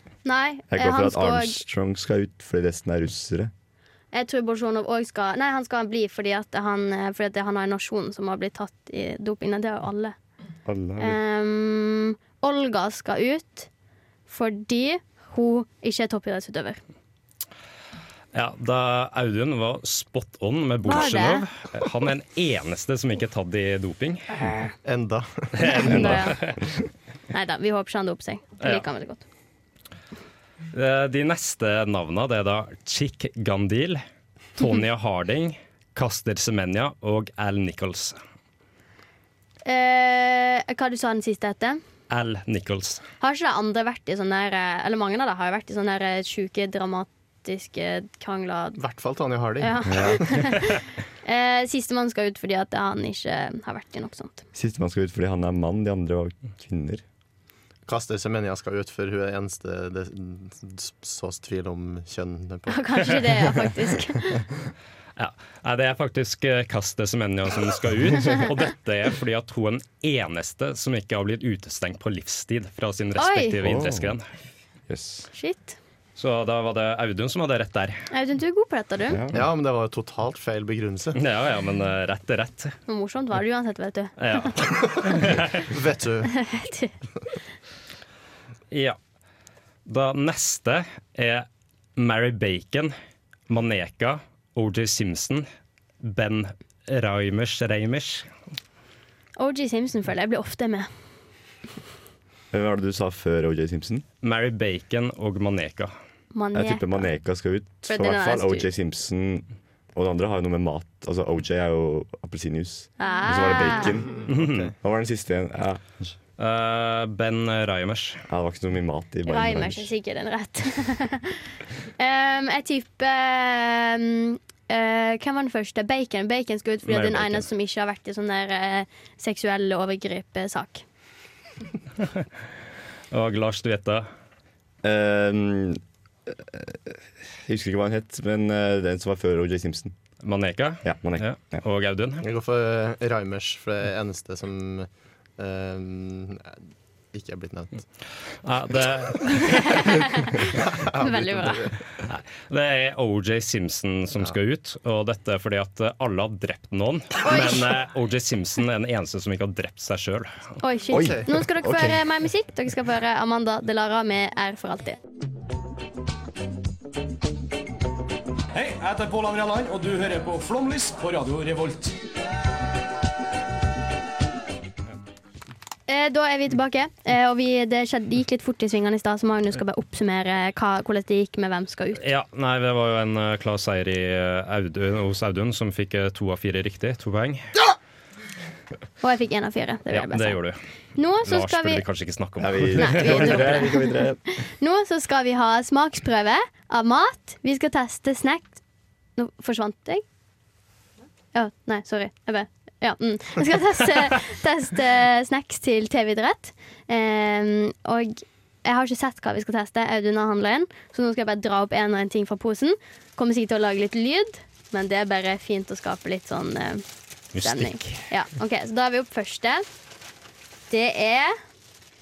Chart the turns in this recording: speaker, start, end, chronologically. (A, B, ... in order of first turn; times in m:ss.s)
0:00.2-0:01.6 A
0:00.7-0:03.5 B
0:04.1-0:10.2 A
0:10.6-0:11.2 B
0:11.0-0:13.7 A
0:14.3-0:16.8 A
0:18.3-0:24.4 C
0:20.9-0:21.5 A
0:24.8-0:25.9 D
0:25.6-0:26.6 C
0:25.7-0:26.4 A
0:25.8-0:26.8 B
0:27.3-0:29.2 A
0:30.7-0:34.0 C
0:34.6-0:38.2 C
0:39.6-0:41.8 A
0:42.1-0:43.0 C
0:43.2-0:48.8 A
0:48.8-0:49.8 D
0:49.6-0:54.4 A
0:49.8-0:50.5 B
0:54.5-0:57.0 B
0:57.9-1:03.3 D
1:02.7-1:04.4 A
1:05.2-1:14.2 C
1:13.2-1:13.6 A
1:13.6-1:14.2 B
1:14.9-1:15.3 B
1:15.3-1:15.8 A
1:16.2-1:18.0 C
1:18.1-1:19.2 A
1:19.1-1:19.5 B
1:19.3-1:21.2 D
1:21.2-1:22.8 C
1:22.9-1:24.5 A
1:24.2-1:25.6 C
1:24.6-1:26.3 D
1:26.3-1:26.9 A
1:28.7-1:29.0 C
1:29.9-1:31.5 C
1:32.0-1:32.9 C
1:33.5-1:35.5 C
1:36.0-1:38.3 C
1:39.4-1:40.9 A
1:42.5-1:44.0 B
1:44.2-1:45.9 C
1:46.3-1:47.1 A
1:46.5-1:56.0 B
1:47.8-1:48.7 A
1:53.0-1:54.0 A
1:54.3-1:54.6 C
1:54.4-1:54.7 D
1:56.4-1:58.2 C
1:58.3-1:59.9 B
1:59.3-2:01.4 A
2:02.0-2:10.8 A
2:06.9-2:07.5 C
2:13.1-2:14.1 C
2:14.8-2:20.0 B
2:20.2-2:22.2 C
2:20.8-2:21.6 B
2:22.2-2:26.5 D
2:27.1-2:27.8 D
2:28.4-2:30.0 C
2:29.4-2:31.7 A
2:30.4-2:31.8 D
2:32.1-2:40.4 C
2:37.2-2:37.7 A
2:40.6-2:45.0 A
2:40.9-2:42.1 B
2:40.9-2:41.2 D
2:48.5-2:52.0 E
2:55.9-3:02.0 A
3:02.0-3:07.5 C
3:09.0-3:10.4 A
3:09.9-3:10.6 C
3:11.0-3:11.8 A
3:11.2-3:13.7 C
3:12.4-3:14.2 B
3:12.8-3:18.6 A
3:19.2-3:20.0 A
3:21.3-3:36.8 A
3:37.3-3:38.0 C
3:37.4-3:39.6 A
3:40.7-3:41.3 A